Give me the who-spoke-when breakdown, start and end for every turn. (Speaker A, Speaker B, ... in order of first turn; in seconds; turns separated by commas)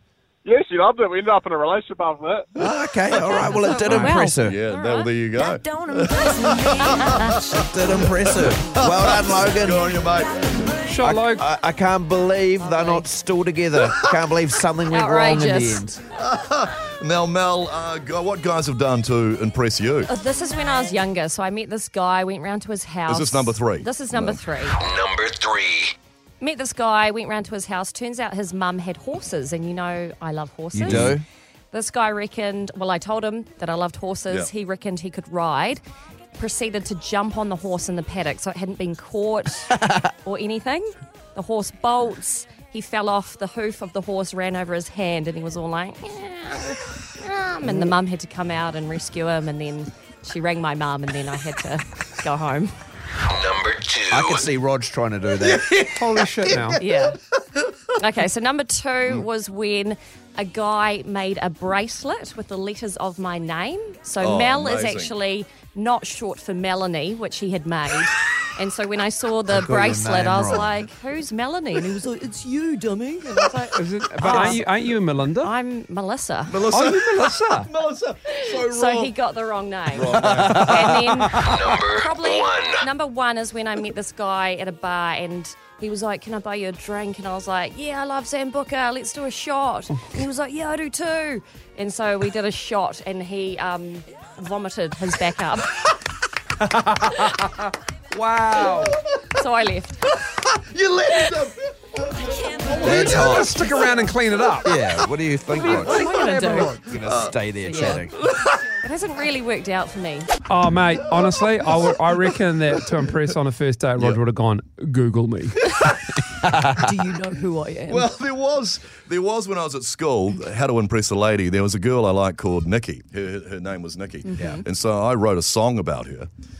Speaker A: 0.4-2.5, Speaker B: 2.6-4.6, Speaker C: 3.2-6.2, Speaker D: 3.8-7.5, Speaker C: 6.8-7.5, Speaker B: 7.5-10.0, Speaker D: 8.0-10.8, Speaker E: 10.8-11.5, Speaker B: 11.0-16.0, Speaker C: 12.6-13.1, Speaker C: 14.9-15.8, Speaker D: 16.1-20.1, Speaker C: 20.1-24.8, Speaker D: 23.1-24.4, Speaker F: 24.8-25.9, Speaker C: 26.4-31.1, Speaker B: 30.7-31.2, Speaker D: 30.8-31.2, Speaker C: 31.7-35.8, Speaker C: 36.4-52.7, Speaker B: 47.6-47.9, Speaker F: 53.3-54.4, Speaker B: 54.1-55.8, Speaker D: 55.5-56.8, Speaker E: 56.0-56.8, Speaker C: 56.8-57.1, Speaker C: 58.0-74.7, Speaker D: 64.2-65.1, Speaker B: 69.5-70.7, Speaker E: 73.7-75.5, Speaker C: 75.4-76.6, Speaker D: 76.5-79.1, Speaker E: 76.7-77.7, Speaker C: 78.3-95.8, Speaker D: 79.9-81.0, Speaker B: 80.2-80.8, Speaker E: 80.2-81.5, Speaker F: 81.5-82.9, Speaker E: 96.7-99.0, Speaker D: 98.5-99.2, Speaker C: 99.4-100.0, Speaker D: 100.1-103.7, Speaker E: 102.8-104.7, Speaker B: 102.8-103.5, Speaker B: 104.6-106.1, Speaker C: 105.6-106.8, Speaker E: 105.8-106.9, Speaker B: 106.8-108.2, Speaker D: 107.0-108.6, Speaker C: 107.6-108.0, Speaker C: 108.8-110.3, Speaker E: 110.5-115.7, Speaker D: 111.1-112.4, Speaker B: 116.3-116.9, Speaker C: 116.8-118.0, Speaker D: 117.9-126.3, Speaker C: 124.3-124.6